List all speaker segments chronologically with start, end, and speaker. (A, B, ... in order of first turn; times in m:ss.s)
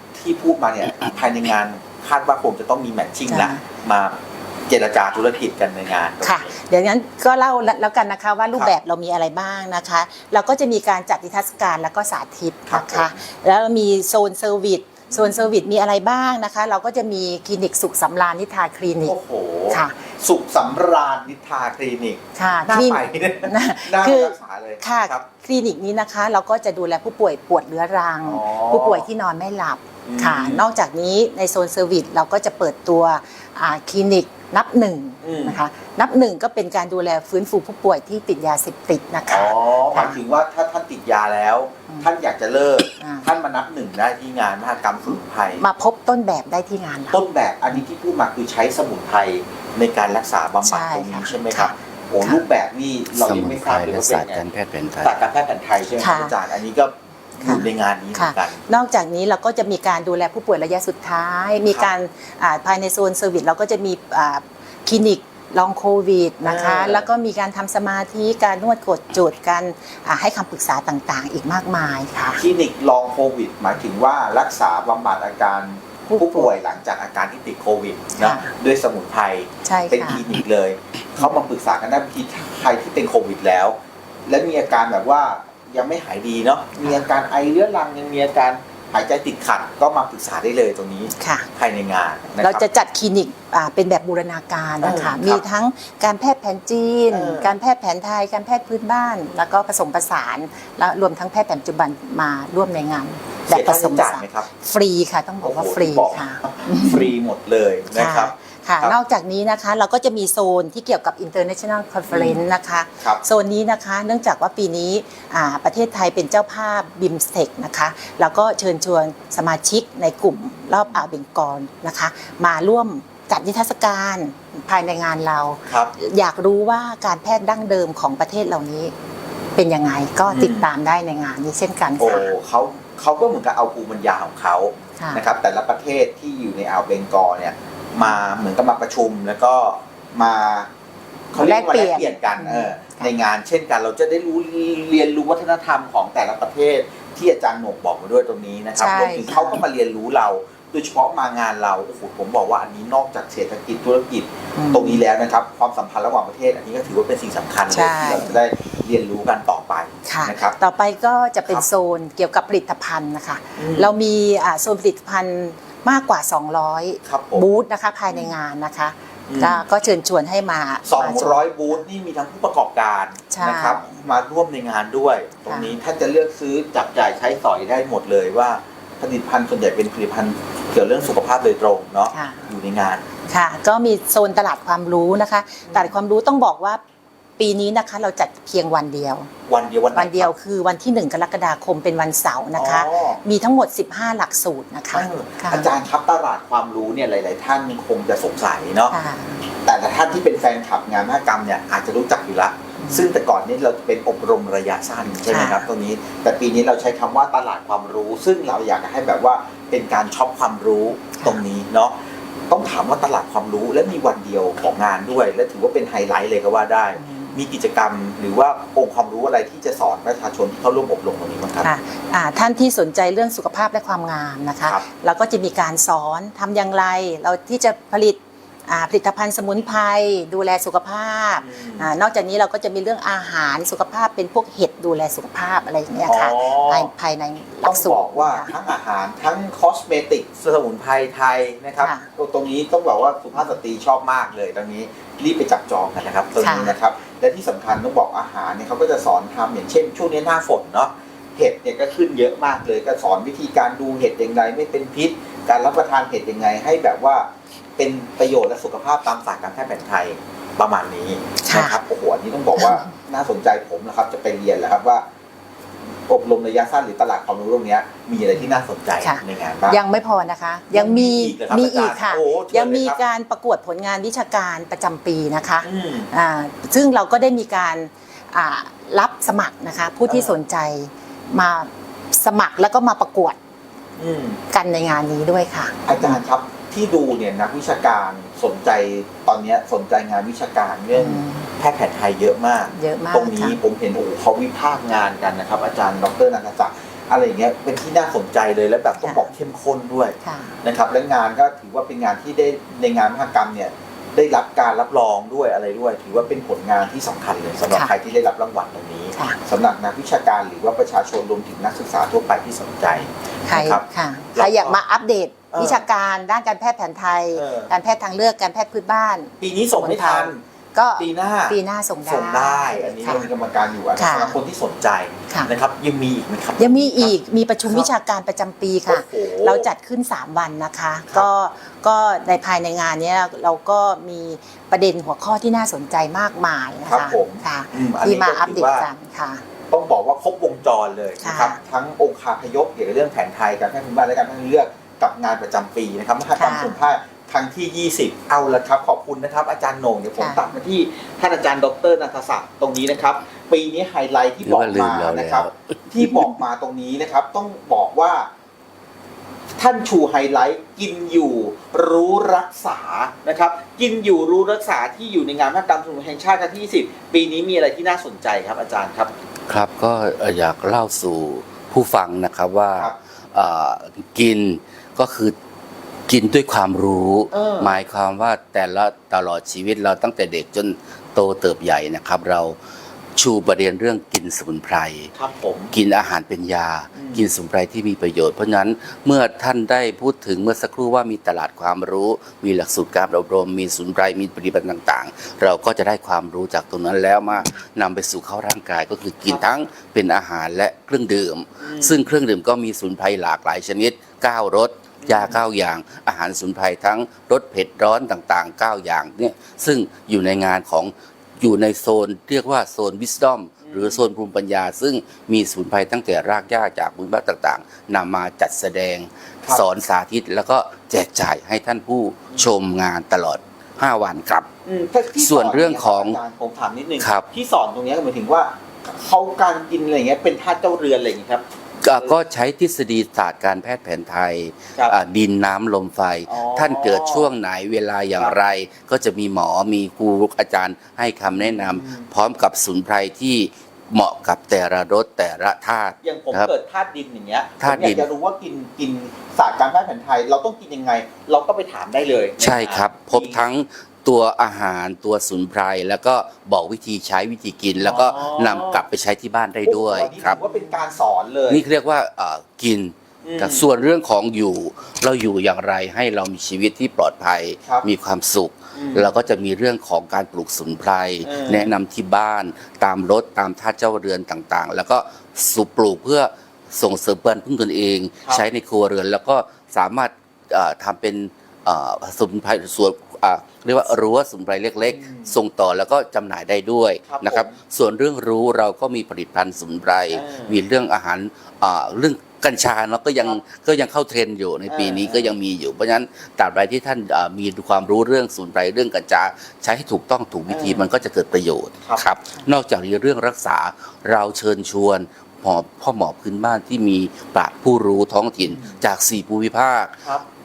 0:00.2-0:06.6 A
0:03.3-0:03.6 B
0:06.2-0:19.2 B
0:12.7-0:13.2 A
0:15.1-0:15.5 A
0:19.0-0:25.3 A
0:19.7-0:20.0 B
0:22.4-0:40.2 B
0:28.2-0:29.0 A
0:30.1-0:30.7 A
0:35.2-0:35.6 A
0:39.3-0:45.6 A
0:43.0-0:43.3 B
0:45.6-0:47.2 B
0:47.1-0:54.4 A
0:50.6-0:52.4 B
0:53.1-0:55.2 C
0:55.0-0:58.6 A
0:56.0-0:56.3 B
0:57.4-1:12.4 B
1:06.4-1:07.1 A
1:12.4-1:32.7 A
1:16.1-1:16.6 B
1:18.2-1:18.5 B
1:19.6-1:20.3 B
1:31.2-1:31.5 B
1:32.4-1:47.1 B
1:34.8-1:35.5 A
1:37.1-1:37.6 A
1:43.5-1:44.5 A
1:45.4-1:49.0 A
1:47.9-2:08.9 B
1:52.1-1:52.4 A
2:00.8-2:01.1 A
2:05.7-2:05.9 A
2:09.6-2:12.3 B
2:10.3-2:10.7 A
2:12.0-2:20.7 A
2:15.0-2:15.2 B
2:21.3-2:40.6 A
2:21.4-2:23.1 B
2:28.8-2:29.6 B
2:34.6-2:35.0 B
2:37.7-2:38.4 B
2:40.0-2:51.8 B
2:43.6-2:43.9 A
2:47.0-2:47.5 A
2:48.1-2:48.3 A
2:49.3-2:49.6 A
2:50.9-3:03.1 A
2:53.3-2:54.0 B
2:55.5-2:55.8 B
3:02.1-3:02.5 B
3:03.3-3:06.8 B
3:05.6-3:05.9 A
3:07.4-3:09.3 B
3:09.5-3:10.3 A
3:09.9-3:15.7 B
3:12.6-3:13.2 A
3:14.9-3:19.0 A
3:18.9-3:19.4 B
3:19.6-3:32.0 A
3:22.8-3:23.1 B
3:25.3-3:25.7 B
3:31.2-3:31.4 B
3:32.5-3:41.7 A
3:37.0-3:37.4 B
3:41.6-3:58.6 B
3:51.4-3:51.9 A
3:56.1-3:56.9 A
3:57.6-4:25.1 A
4:01.8-4:02.1 B
4:06.4-4:06.8 B
4:21.4-4:21.8 B
4:22.6-4:22.9 B
4:26.1-4:29.8 A
4:28.3-4:43.4 B
4:30.7-4:33.0 A
4:35.6-4:36.1 A
4:40.1-4:40.4 A
4:44.0-4:44.4 A
4:44.5-4:46.2 B
4:45.9-5:14.8 A
4:50.9-4:51.5 B
4:52.7-4:53.6 B
4:59.0-4:59.3 B
5:00.2-5:00.6 B
5:07.7-5:07.9 B
5:09.1-5:09.4 B
5:13.4-5:23.3 B
5:15.5-5:15.9 A
5:17.3-5:17.7 A
5:19.4-5:20.4 A
5:21.0-5:27.1 A
5:24.0-5:24.4 B
5:26.6-5:39.4 B
5:28.9-5:29.7 A
5:36.9-5:38.9 A
5:39.7-5:58.3 A
5:41.2-5:41.6 B
5:46.4-5:46.8 B
5:50.2-5:50.5 B
5:54.4-5:56.4 C
5:59.6-6:09.1 A
6:09.5-6:15.4 C
6:16.1-6:22.6 C
6:17.3-6:17.7 A
6:23.2-6:25.1 C
6:25.2-6:25.7 A
6:25.7-7:04.5 C
6:27.0-6:27.3 A
6:41.6-6:42.1 A
6:45.0-6:45.4 A
6:53.6-6:54.0 A
7:04.6-7:12.2 A
7:05.1-7:06.2 C
7:07.0-7:07.3 C
7:11.8-7:26.5 C
7:16.3-7:17.3 A
7:21.3-7:22.1 A
7:26.0-7:33.4 A
7:27.6-7:28.0 C
7:32.4-7:40.4 C
7:37.8-7:38.8 A
7:39.6-7:41.6 A
7:41.5-8:29.9 C
7:43.2-7:43.7 A
7:48.8-7:49.1 A
7:51.2-7:51.7 A
8:04.8-8:05.4 A
8:07.1-8:07.6 A
8:10.1-8:10.6 A
8:14.7-8:15.4 A
8:20.5-8:20.9 A
8:21.8-8:22.1 A
8:28.4-8:28.8 A